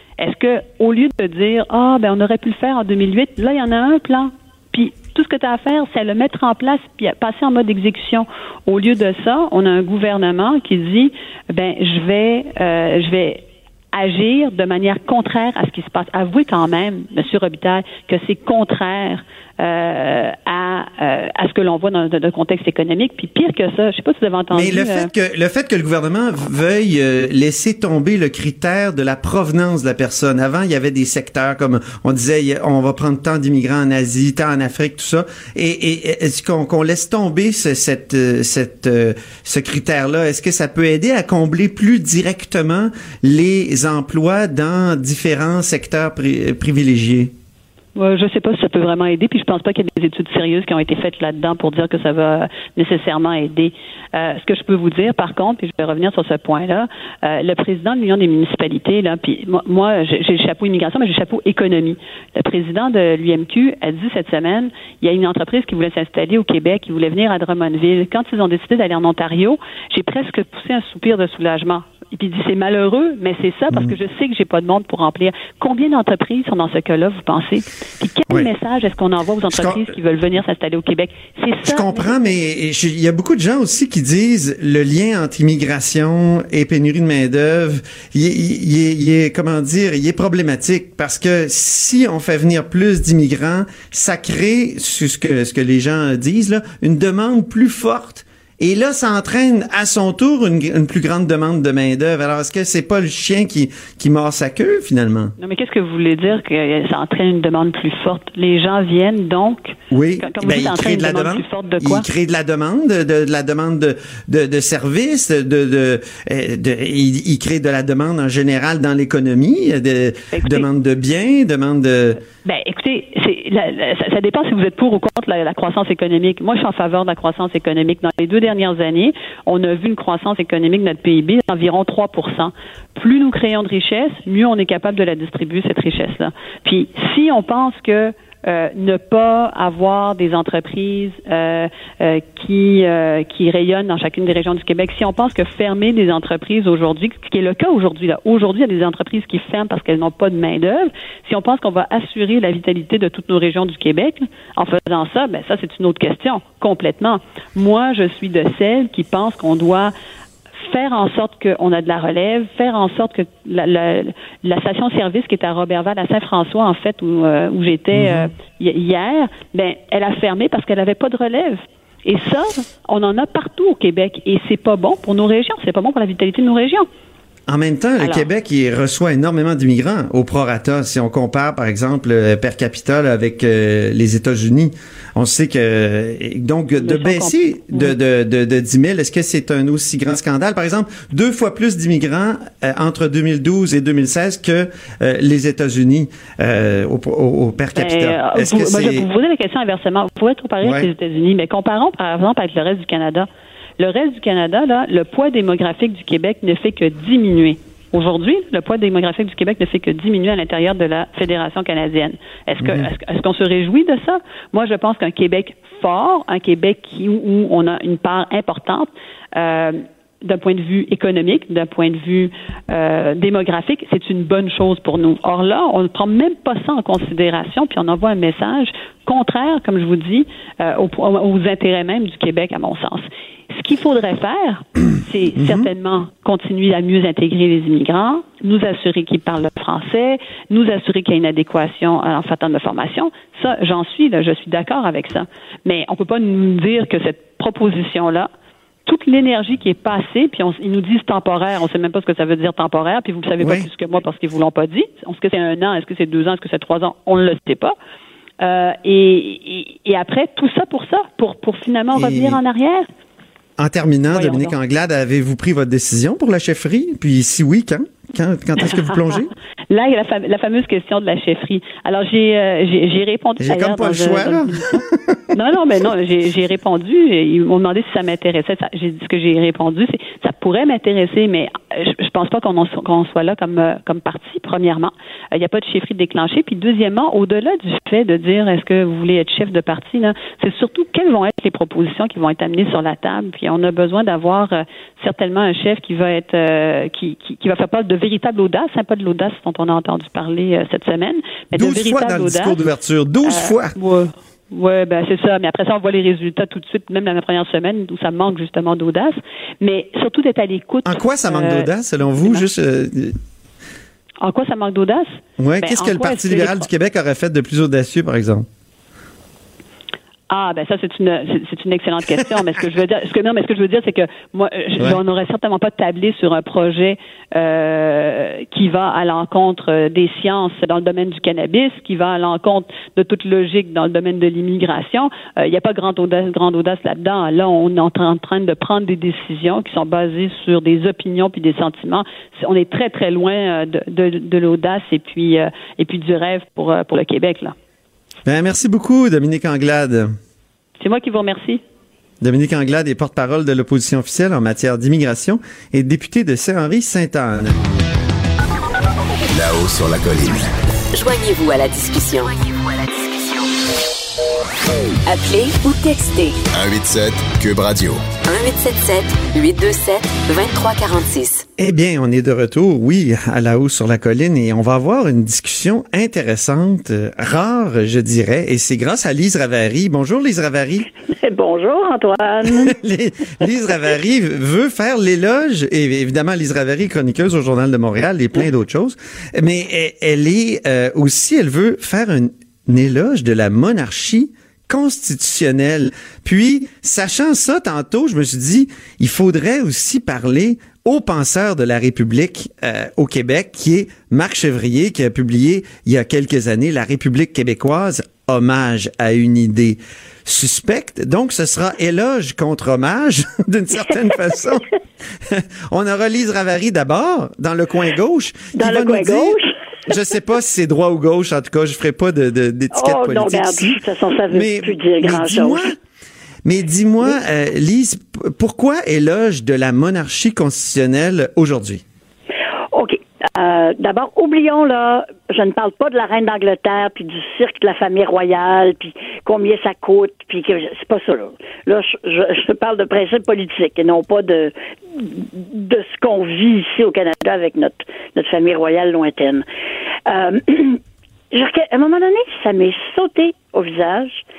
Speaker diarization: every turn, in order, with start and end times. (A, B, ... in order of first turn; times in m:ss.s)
0:00.2-0:25.1 A
0:24.5-0:47.3 B
0:48.0-1:22.3 A
1:19.5-1:19.9 B
1:21.6-1:45.3 B
1:45.4-1:52.1 A
1:49.9-2:02.2 B
2:00.3-2:00.7 A
2:02.4-2:39.9 A
2:40.6-2:56.9 A
2:47.9-2:48.3 B
2:57.5-3:19.1 B
2:58.0-2:58.3 A
3:06.8-3:07.9 A
3:17.7-4:08.3 A
3:20.6-3:20.9 B
3:32.6-3:32.9 B
3:55.4-3:55.6 B
4:08.8-4:17.8 A
4:13.4-4:13.7 B
4:18.4-4:22.9 A
4:21.9-4:22.4 B
4:23.6-4:29.3 B
4:24.1-4:24.5 A
4:28.8-4:29.0 A
4:29.7-4:34.8 A
4:33.4-4:35.2 B
4:35.3-5:02.6 A
5:01.5-5:03.8 B
5:03.2-5:12.5 A
5:10.8-5:13.2 B
5:14.2-5:16.7 A
5:15.4-5:18.4 B
5:20.3-5:47.5 A
5:48.2-5:50.1 B
5:50.8-5:51.6 A
5:52.2-5:57.5 B
5:59.3-6:00.5 C
6:00.9-6:02.4 D
6:03.0-6:03.4 D
6:05.0-6:06.4 D
6:06.5-6:08.0 C
6:08.2-6:11.4 D
6:11.6-6:20.9 B
6:21.1-6:22.8 E
6:22.6-6:54.7 B
6:55.2-6:59.4 B
6:58.5-6:59.5 E
6:59.9-7:03.8 B
7:02.7-7:05.7 E
7:04.3-7:05.7 B
7:06.4-7:11.8 B
7:12.7-7:29.4 E
7:30.1-7:30.8 E
7:31.3-7:34.2 E